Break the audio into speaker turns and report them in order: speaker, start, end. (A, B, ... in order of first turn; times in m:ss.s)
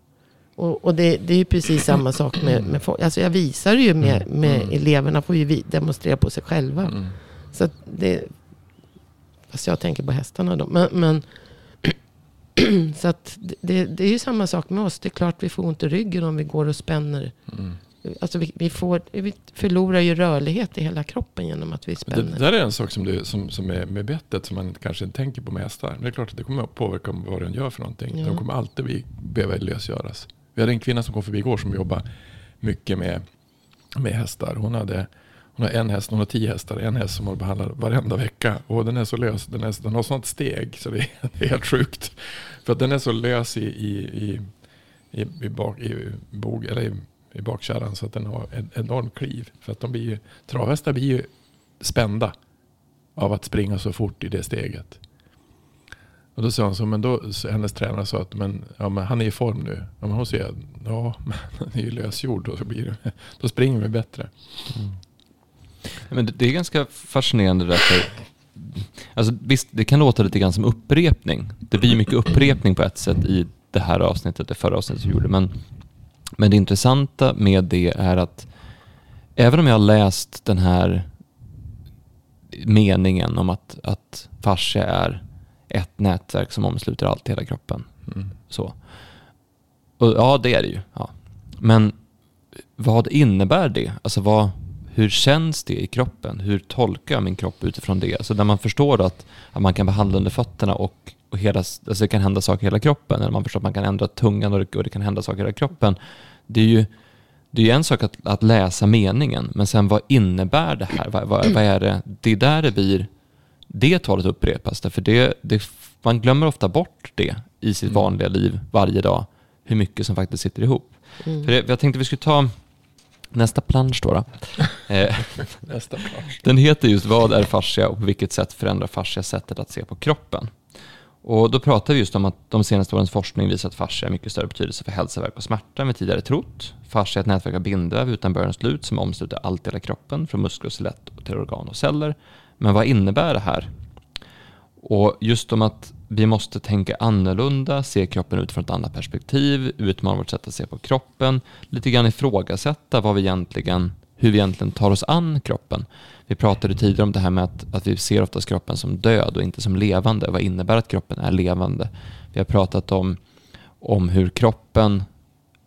0:00.6-0:08.3 A
0:04.0-0:04.7 B
0:09.5-0:11.2 A
0:12.6-0:17.3 A
0:17.5-0:17.8 B
0:18.0-0:22.4 A
0:22.1-0:32.0 B
0:28.1-0:28.4 A
0:32.6-0:33.2 B
0:34.0-0:44.4 B
0:45.1-0:51.3 B
0:51.8-0:52.3 B
0:53.2-0:55.0 B
0:56.4-1:04.3 B
1:06.0-1:15.5 C
1:16.4-1:18.5 C
1:19.4-1:21.1 C
1:22.5-1:27.9 C
1:28.5-1:28.8 C
1:30.0-1:32.0 C
1:32.8-1:46.9 C
1:47.5-1:53.1 C
1:53.7-2:02.5 C
2:03.3-2:05.6 C
2:05.6-2:06.4 B
2:06.3-2:10.5 C
2:11.2-2:23.7 C
2:24.8-2:43.2 C
2:43.8-2:45.1 C